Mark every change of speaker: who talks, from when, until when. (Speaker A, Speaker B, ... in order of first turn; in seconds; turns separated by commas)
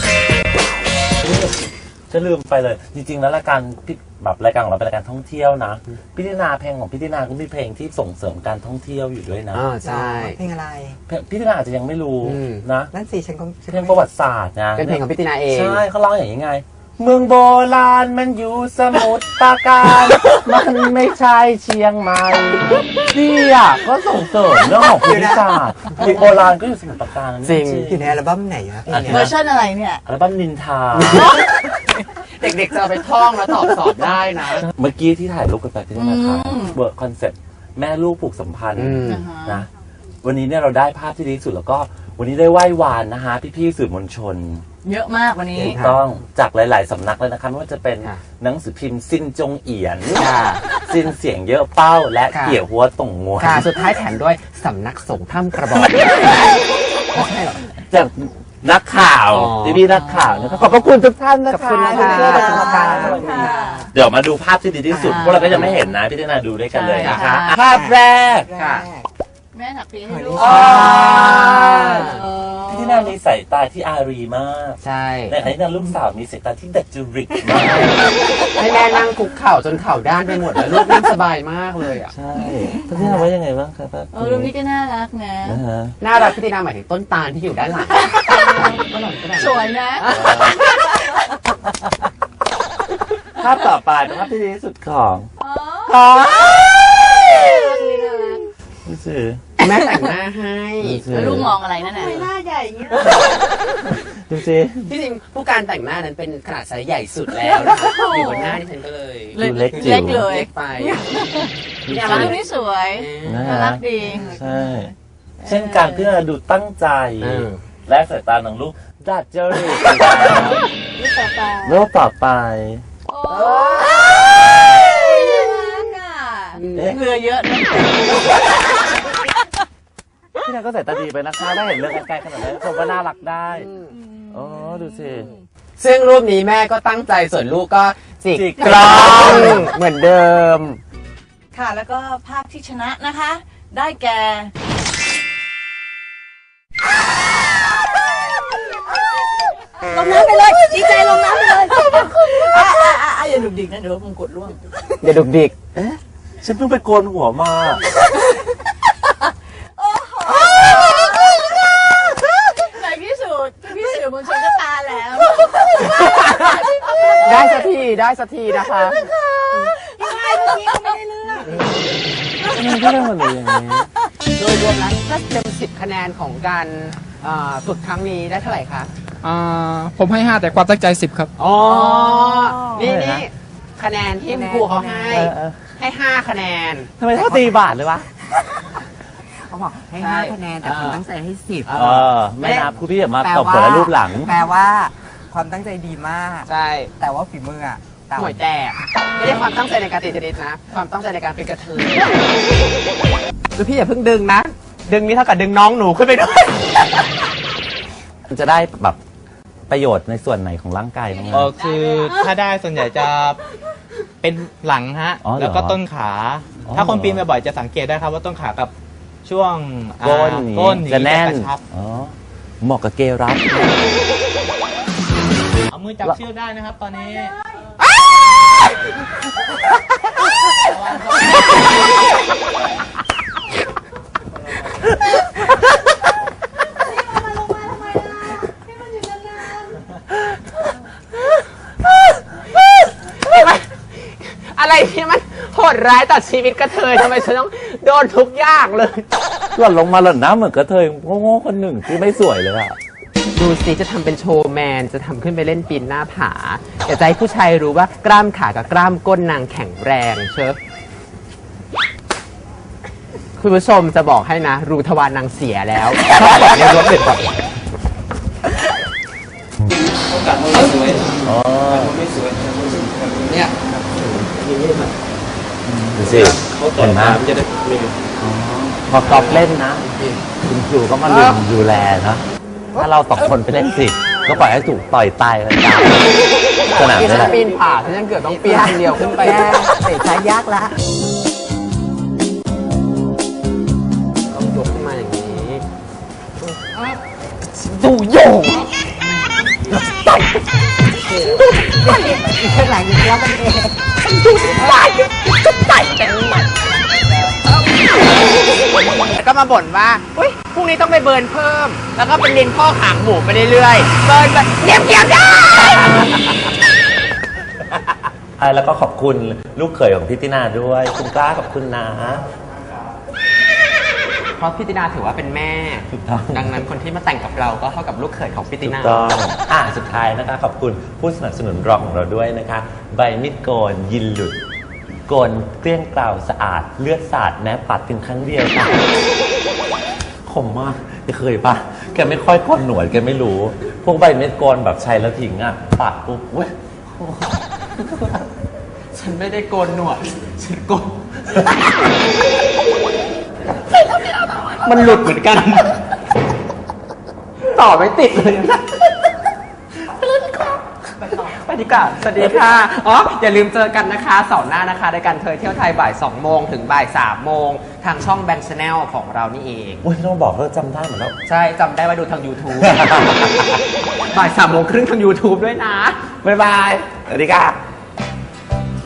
Speaker A: 1.2-9.7, Speaker B: 9.5-10.4, Speaker C: 9.8-11.0, Speaker A: 11.1-12.9, Speaker B: 12.2-12.6, Speaker C: 12.9-14.1, Speaker A: 13.7-28.1, Speaker B: 14.8-15.8, Speaker C: 25.0-25.6, Speaker B: 27.4-27.9, Speaker C: 27.9-29.3, Speaker A: 28.9-29.3, Speaker D: 28.9-30.0, Speaker A: 30.1-31.4, Speaker B: 30.9-31.3, Speaker D: 31.1-31.4, Speaker B: 32.4-34.6, Speaker A: 34.5-39.7, Speaker D: 36.0-36.8, Speaker B: 38.7-39.2, Speaker D: 39.0-39.6, Speaker A: 40.2-44.6, Speaker D: 44.8-45.8, Speaker B: 45.5-46.0, Speaker A: 45.6-53.7, Speaker B: 50.1-50.6, Speaker B: 52.3-52.6, Speaker B: 53.4-56.4, Speaker B: 57.1-57.6, Speaker A: 57.9-68.5, Speaker B: 59.3-59.8, Speaker C: 61.6-63.6, Speaker B: 61.7-63.5, Speaker D: 61.8-63.9, Speaker B: 64.9-65.7, Speaker D: 65.0-65.8, Speaker B: 66.8-67.2, Speaker D: 66.8-67.5, Speaker C: 67.7-69.1, Speaker B: 68.5-68.9, Speaker D: 69.5-73.1, Speaker C: 70.0-70.6, Speaker A: 70.3-71.9, Speaker B: 70.4-72.2, Speaker A: 72.7-78.0, Speaker B: 74.8-75.4, Speaker B: 78.5-82.1, Speaker A: 82.1-84.5, Speaker B: 83.0-83.2, Speaker D: 84.1-85.6, Speaker A: 85.4-85.9, Speaker B: 86.0-90.5, Speaker D: 88.0-88.4, Speaker D: 89.3-90.1, Speaker A: 90.1-90.6, Speaker D: 90.7-91.2, Speaker A: 93.4-95.3, Speaker D: 95.4-98.5, Speaker A: 95.9-99.4, Speaker B: 99.6-102.2, Speaker D: 99.6-99.8, Speaker A: 100.8-101.6, Speaker D: 101.1-102.2, Speaker C: 102.1-102.7, Speaker D: 102.9-103.3, Speaker A: 103.8-104.9, Speaker B: 104.9-111.0, Speaker D: 107.6-108.6, Speaker D: 109.3-114.8, Speaker A: 109.3-110.3, Speaker A: 111.8-112.4, Speaker B: 111.9-112.4, Speaker B: 112.9-114.2, Speaker A: 113.2-114.9, Speaker D: 115.4-116.1, Speaker A: 115.4-120.6, Speaker B: 117.2-117.6, Speaker D: 121.0-121.8, Speaker A: 121.6-122.8, Speaker D: 123.1-128.6, Speaker B: 123.3-124.1, Speaker B: 126.5-127.0, Speaker A: 126.7-127.0, Speaker A: 130.4-133.7, Speaker B: 133.6-133.9, Speaker D: 133.9-135.4, Speaker A: 134.3-135.3, Speaker B: 135.8-140.8, Speaker A: 138.3-139.7, Speaker D: 138.6-139.4, Speaker D: 141.5-144.5, Speaker D: 149.9-154.6, Speaker B: 155.0-155.5, Speaker A: 155.7-157.8, Speaker D: 159.8-167.6, Speaker B: 165.9-166.5, Speaker B: 167.2-169.0, Speaker D: 168.8-171.4, Speaker C: 170.2-171.7, Speaker D: 172.4-173.1, Speaker A: 172.4-173.9, Speaker B: 174.3-178.9, Speaker E: 179.2-181.3, Speaker B: 181.4-186.9, Speaker D: 181.6-182.9, Speaker A: 182.8-183.2, Speaker C: 184.3-185.2, Speaker A: 185.1-185.6, Speaker A: 187.0-188.1, Speaker C: 187.2-187.7, Speaker C: 189.3-191.7, Speaker B: 190.0-191.0, Speaker B: 191.6-192.6, Speaker A: 191.7-194.3, Speaker C: 193.2-198.4, Speaker B: 196.4-196.9, Speaker B: 198.1-202.3, Speaker B: 203.5-206.7, Speaker A: 208.3-209.0, Speaker A: 209.7-211.6, Speaker D: 211.3-212.1, Speaker E: 211.3-213.4, Speaker E: 214.2-218.7, Speaker A: 215.2-215.8, Speaker A: 216.6-217.2, Speaker E: 219.2-221.6, Speaker A: 220.0-224.2, Speaker E: 225.7-227.3, Speaker B: 242.5-249.1, Speaker A: 249.5-252.8, Speaker B: 253.3-260.6, Speaker B: 263.4-267.4, Speaker A: 271.2-272.0, Speaker E: 272.1-272.9, Speaker B: 273.2-274.8, Speaker A: 275.7-277.2, Speaker E: 276.2-277.9, Speaker A: 278.2-279.9, Speaker A: 280.4-287.4, Speaker B: 286.6-289.6, Speaker C: 288.5-290.7, Speaker B: 294.3-295.6, Speaker B: 297.6-298.7, Speaker C: 301.6-303.8, Speaker B: 304.2-306.4, Speaker B: 308.8-316.1, Speaker A: 318.4-322.2, Speaker B: 324.4-329.0, Speaker A: 325.9-326.6, Speaker A: 328.6-334.4, Speaker A: 335.1-338.8, Speaker A: 340.2-348.2, Speaker B: 348.9-350.9, Speaker B: 354.4-355.7, Speaker B: 357.4-358.8, Speaker B: 361.1-369.8, Speaker A: 369.8-371.1, Speaker B: 371.2-373.1, Speaker A: 372.6-373.6, Speaker B: 374.1-376.0, Speaker A: 376.2-377.6